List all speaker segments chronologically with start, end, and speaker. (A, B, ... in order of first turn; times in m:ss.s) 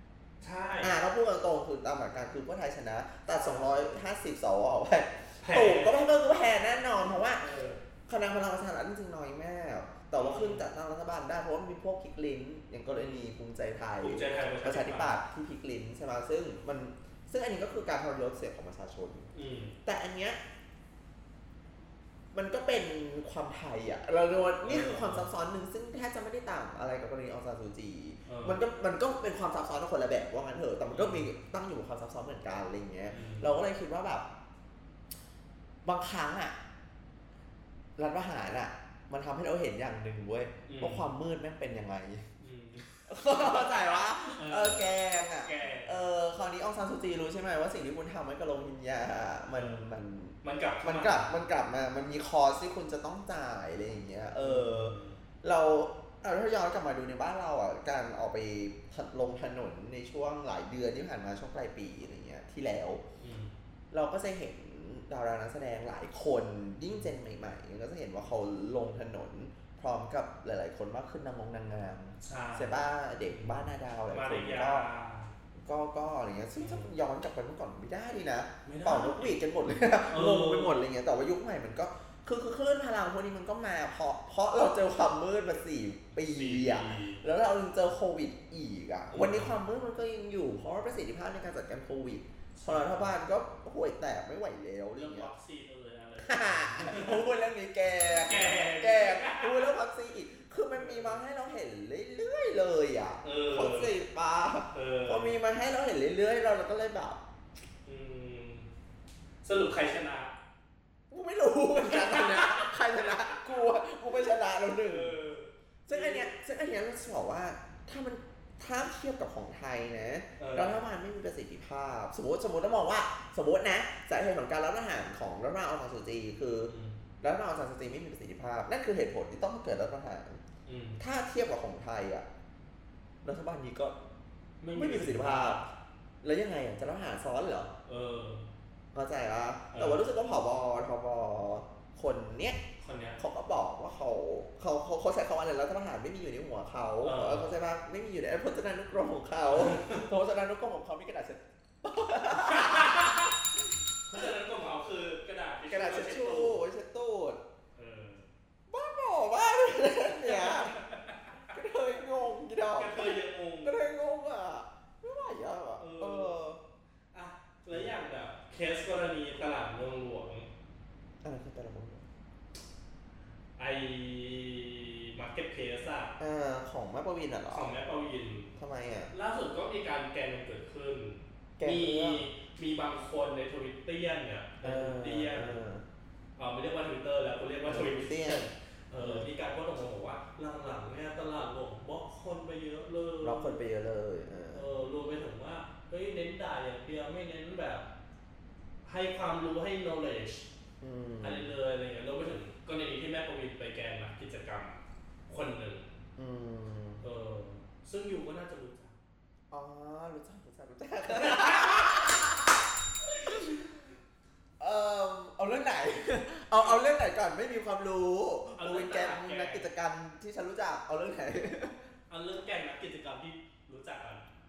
0:00.4-0:01.0 A
0:00.8-0:07.4 B
0:03.4-0:03.7 A
0:05.4-0:06.0 A
0:07.4-0:07.8 A
0:08.1-0:19.3 B
0:10.2-0:10.7 A
0:12.9-0:13.2 A
0:14.0-0:15.2 A
0:19.3-0:19.8 A
0:19.8-0:20.4 B
0:22.3-0:34.3 B
0:24.6-0:25.3 A
0:28.3-0:28.6 A
0:30.9-0:31.3 A
0:33.1-0:33.5 A
0:35.8-0:36.6 B
0:38.0-0:42.2 B
0:40.7-0:41.1 A
0:42.4-0:46.0 A
0:43.1-1:03.0 B
0:49.5-0:49.9 A
0:50.4-0:51.3 A
0:54.4-0:55.2 A
1:03.2-1:03.5 A
1:03.9-1:14.9 B
1:12.2-1:12.7 A
1:13.3-1:15.3 A
1:15.6-1:35.3 B
1:16.6-1:16.9 A
1:18.6-1:19.4 A
1:20.1-1:20.8 A
1:26.2-1:27.2 A
1:29.1-1:29.6 A
1:32.6-1:33.1 A
1:35.0-1:37.3 A
1:36.2-1:47.2 B
1:38.0-1:39.7 A
1:40.8-1:41.2 A
1:43.2-1:44.0 A
1:44.7-1:45.4 A
1:47.9-1:48.7 A
1:49.4-1:50.3 A
1:51.1-1:55.2 B
1:51.8-1:53.4 A
1:54.8-1:56.3 A
1:55.9-2:10.4 B
2:00.4-2:00.8 A
2:06.7-2:07.0 A
2:10.7-2:11.0 A
2:11.0-2:12.3 B
2:13.2-2:14.0 B
2:14.6-2:15.6 A
2:14.8-2:15.7 B
2:16.2-2:17.7 B
2:17.8-2:18.5 A
2:18.9-2:22.6 B
2:19.7-2:20.0 A
2:22.8-2:23.2 A
2:23.2-2:33.2 B
2:27.0-2:27.6 A
2:29.5-2:30.1 A
2:32.3-2:33.4 A
2:34.0-2:36.6 A
2:35.7-2:37.4 B
2:37.8-2:38.3 A
2:38.7-2:40.8 B
2:40.1-2:41.5 A
2:41.5-2:46.6 B
2:42.7-2:43.8 A
2:45.8-2:46.4 A
2:47.1-2:50.5 A
2:51.2-2:52.1 B
2:53.6-2:56.2 A
2:56.2-2:57.7 B
2:57.5-2:58.5 A
2:58.6-2:59.1 B
2:59.1-3:05.6 A
3:01.6-3:02.3 B
3:04.6-3:05.8 B
3:06.4-3:13.6 A
3:07.7-3:09.3 B
3:13.2-3:14.7 B
3:14.5-3:17.9 A
3:18.8-3:20.5 A
3:20.8-3:21.5 B
3:21.2-3:25.9 A
3:26.2-3:27.0 B
3:27.0-3:29.0 A
3:29.5-3:33.7 B
3:31.1-3:32.2 A
3:33.2-3:33.6 A
3:34.6-3:41.8 B
3:36.6-3:36.8 A
3:38.6-3:39.7 A
3:42.1-3:44.2 A